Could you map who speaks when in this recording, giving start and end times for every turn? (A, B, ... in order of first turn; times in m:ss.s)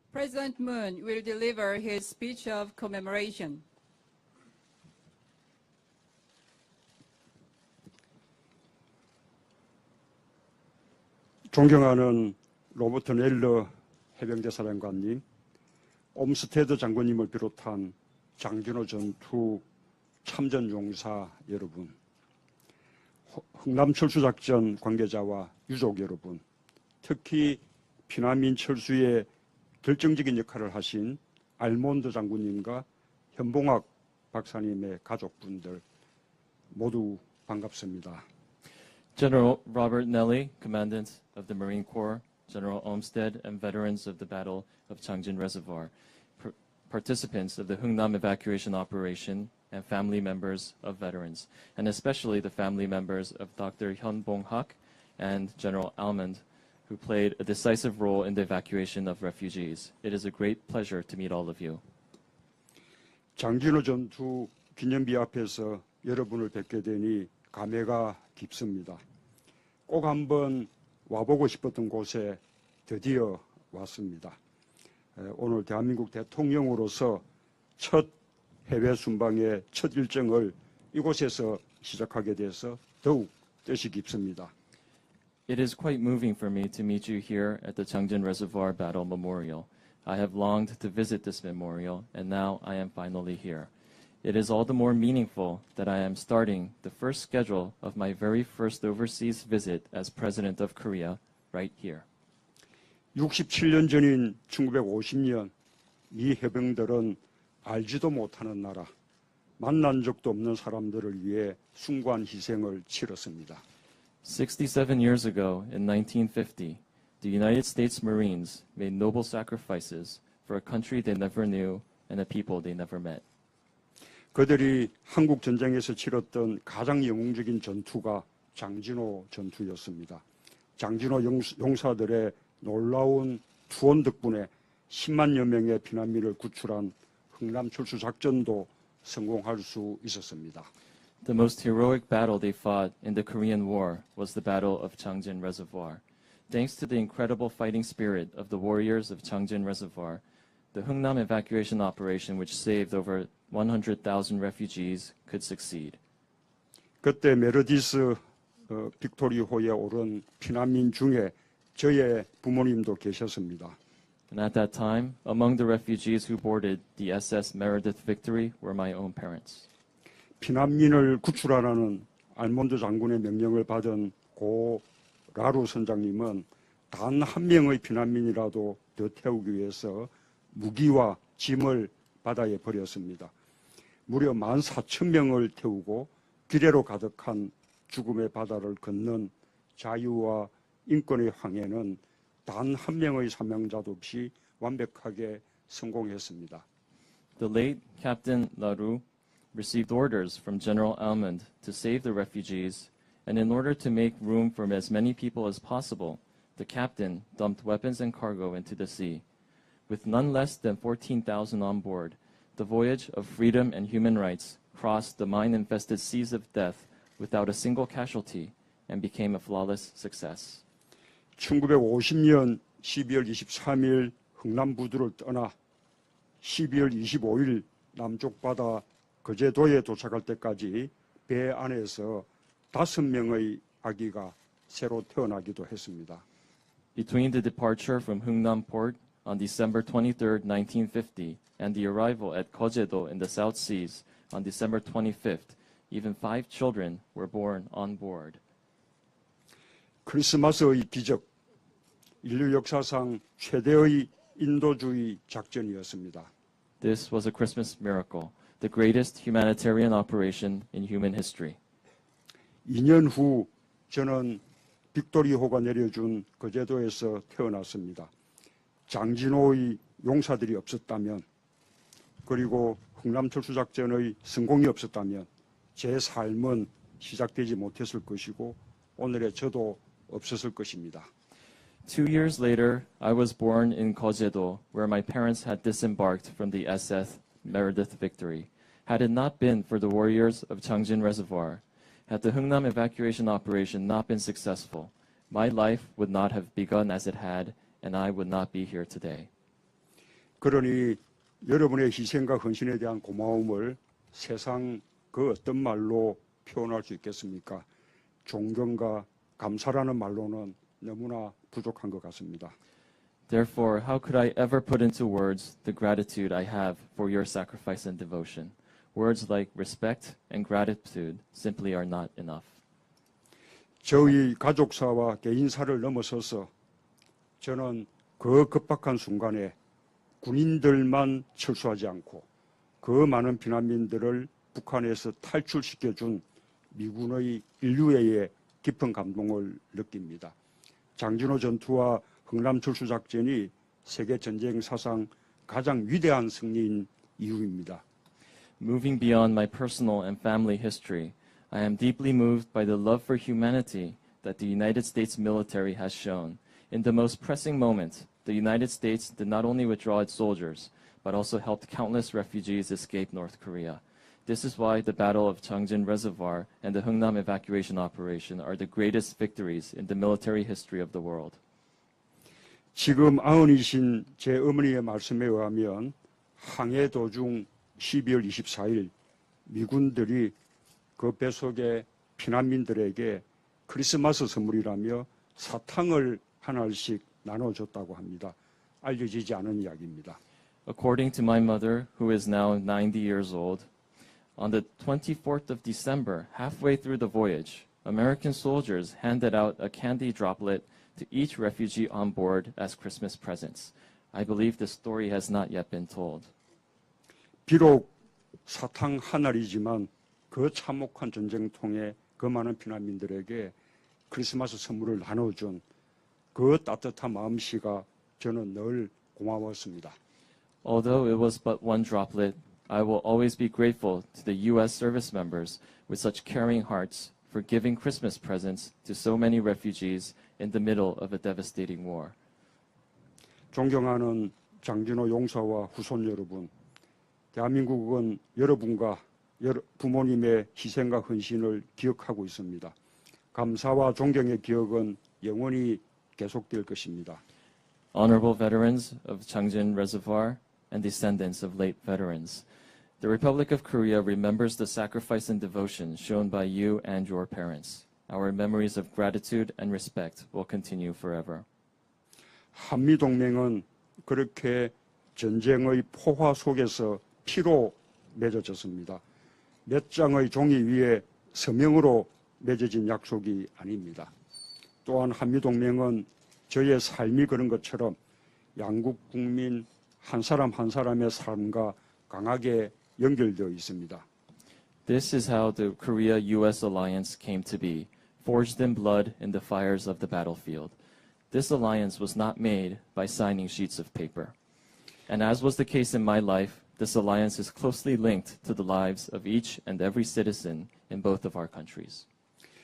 0:00.1-0:03.6 A
0:11.5-0:15.2 B
0:16.2-0:19.6 B
0:20.2-0:21.9 B
0:23.3-0:26.4 B
0:27.0-0:29.3 B
0:29.8-0:35.8 B
0:36.7-0:38.2 B
0:39.2-1:01.8 C
1:03.4-1:09.0 B
1:09.9-1:14.4 B
1:15.2-1:17.2 B
1:17.8-1:18.1 B
1:18.7-1:24.5 B
1:25.5-1:33.7 C
1:34.2-1:42.1 C
1:43.2-1:45.5 B
1:46.1-1:48.9 B
1:49.6-1:53.6 B
1:54.2-2:03.2 C
2:04.3-2:10.2 B
2:10.8-2:20.7 B
2:21.2-2:36.0 C
2:37.0-2:43.8 B
2:44.3-2:49.7 C
2:50.4-3:03.3 B
3:04.1-3:16.6 B
3:17.4-3:29.2 C
3:29.9-3:40.6 C
3:41.4-3:45.5 B
3:46.4-3:56.2 B
3:57.0-4:08.4 C
4:10.1-4:11.2 B
4:12.2-4:16.3 B
4:16.8-4:21.6 C
4:22.6-4:24.4 B
4:24.9-4:28.1 B
4:28.9-4:31.2 B
4:32.2-4:41.1 B
4:41.9-4:59.3 C
5:00.4-5:07.7 B
5:08.2-5:12.6 B
5:13.3-5:22.6 C
5:23.8-5:26.5 B
5:27.4-5:29.6 B
5:30.2-5:32.2 B
5:32.8-5:40.3 B
5:41.0-5:47.8 B
5:48.6-6:11.4 C
6:12.8-6:18.9 B
6:19.5-6:20.3 B
6:21.0-6:30.2 B
6:30.7-6:33.7 C
6:34.4-6:46.3 C
6:47.5-6:47.9 B
6:48.5-6:53.5 B
6:54.1-6:55.6 B
6:56.3-7:00.0 B
7:00.6-7:12.2 C
7:13.5-7:16.5 B
7:17.3-7:22.7 B
7:23.3-7:27.2 B
7:27.9-7:32.4 C
7:33.0-7:41.4 C
7:42.5-7:49.0 B
7:49.7-7:54.1 B
7:54.8-7:58.0 B
7:58.6-8:04.0 B
8:04.9-8:10.8 C
8:11.3-8:14.3 C
8:15.1-8:22.1 C